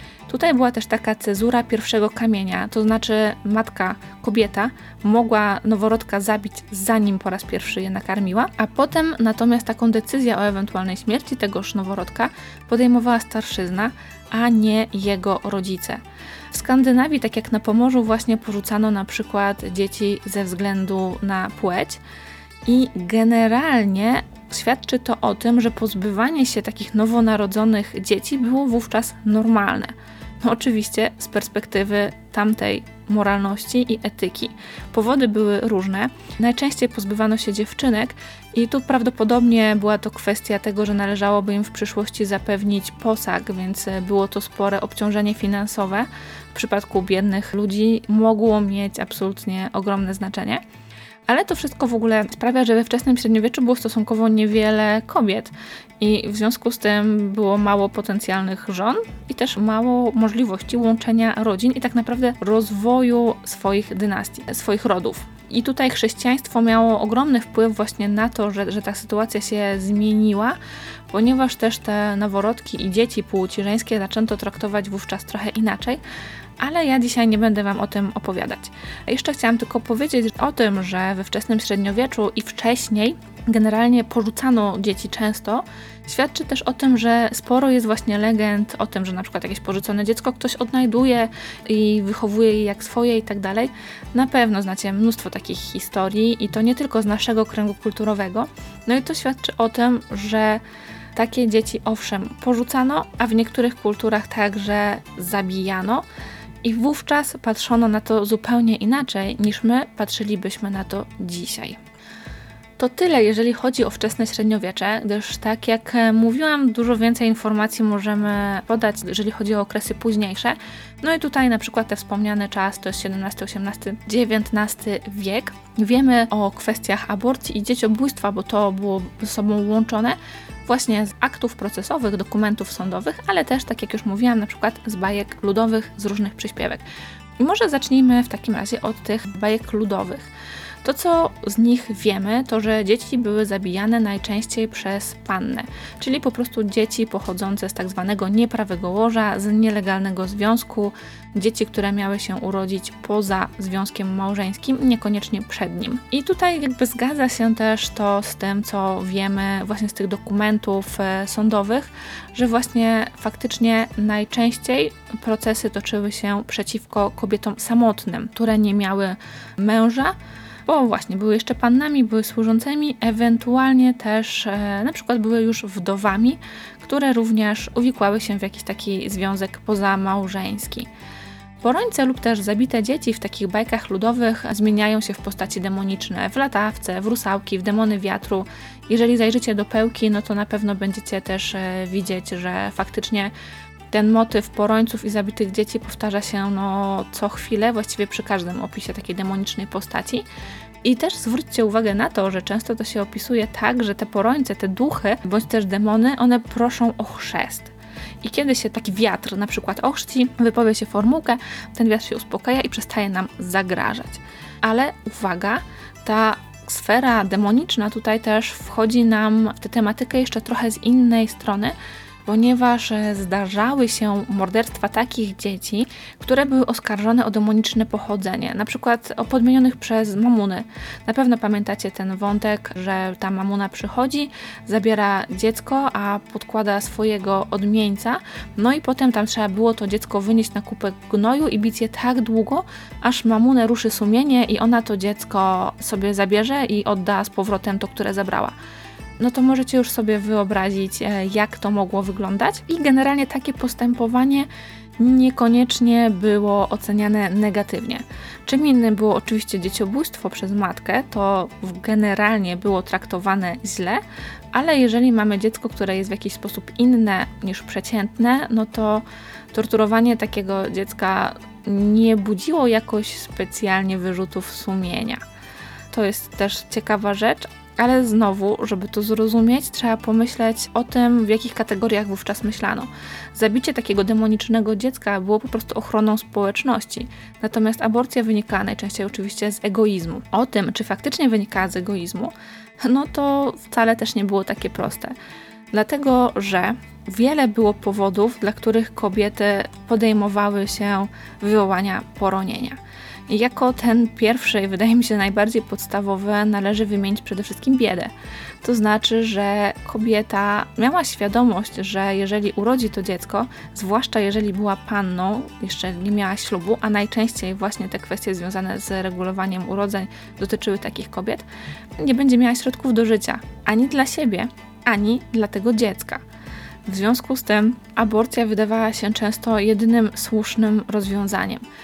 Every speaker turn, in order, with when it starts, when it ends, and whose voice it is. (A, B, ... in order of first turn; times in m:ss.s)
0:00.3-0:16.0 A
0:16.5-0:22.0 A
0:22.6-0:50.6 A
0:51.3-1:10.6 A
1:11.1-1:16.0 A
1:16.6-1:40.6 A
1:41.1-1:46.0 A
1:46.6-1:51.8 A
1:52.8-2:16.8 A
2:17.4-2:20.3 A
2:20.8-2:50.1 A
2:50.6-3:00.9 A
3:01.6-3:13.3 A
3:13.9-3:20.2 A
3:20.8-3:41.7 A
3:42.2-4:08.5 A
4:09.2-4:24.0 A
4:24.5-4:35.2 A
4:35.9-4:55.1 A
4:55.7-5:08.1 A
5:08.6-5:21.4 A
5:22.0-5:26.2 A
5:26.8-5:31.6 A